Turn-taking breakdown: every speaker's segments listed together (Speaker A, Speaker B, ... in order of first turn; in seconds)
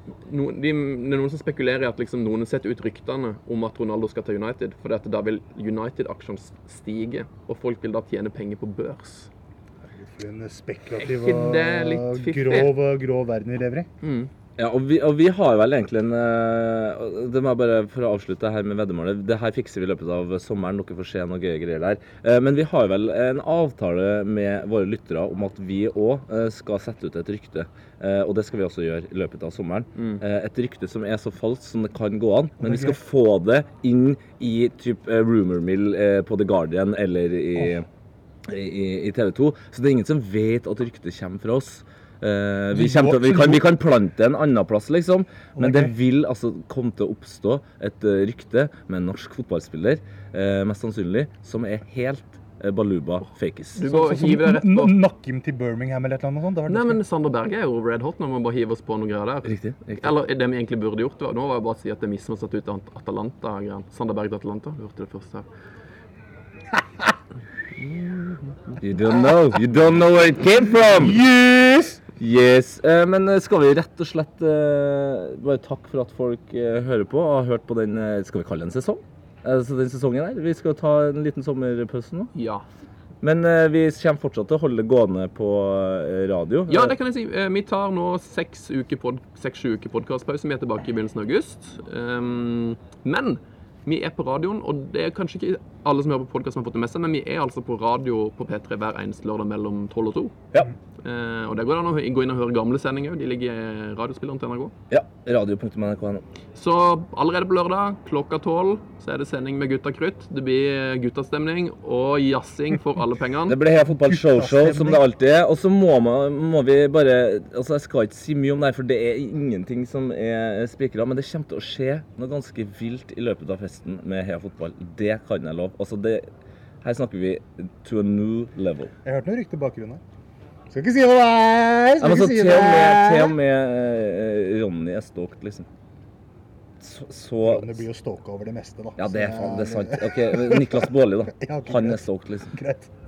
Speaker A: 0.2-9.3, 11.0-12.7, 14.0-14.3, 29.9-30.2, 53.7-55.0, 56.7-65.5, 82.3-82.6, 86.7-100.3, 101.0-104.7, 106.5-113.6
Speaker B: 9.9-13.9, 32.6-33.0, 42.7-43.6, 45.5-45.9, 53.9-57.0, 71.0-72.0, 113.9-115.0, 129.0-130.0, 130.7-133.3, 137.4-142.9
Speaker C: 14.6-37.9, 38.5-53.8, 59.5-60.1, 68.8-71.2, 72.2-82.3, 83.2-87.0, 104.9-106.2, 113.5-126.2, 126.8-128.9, 132.0-135.7, 136.8-137.8, 139.0-142.5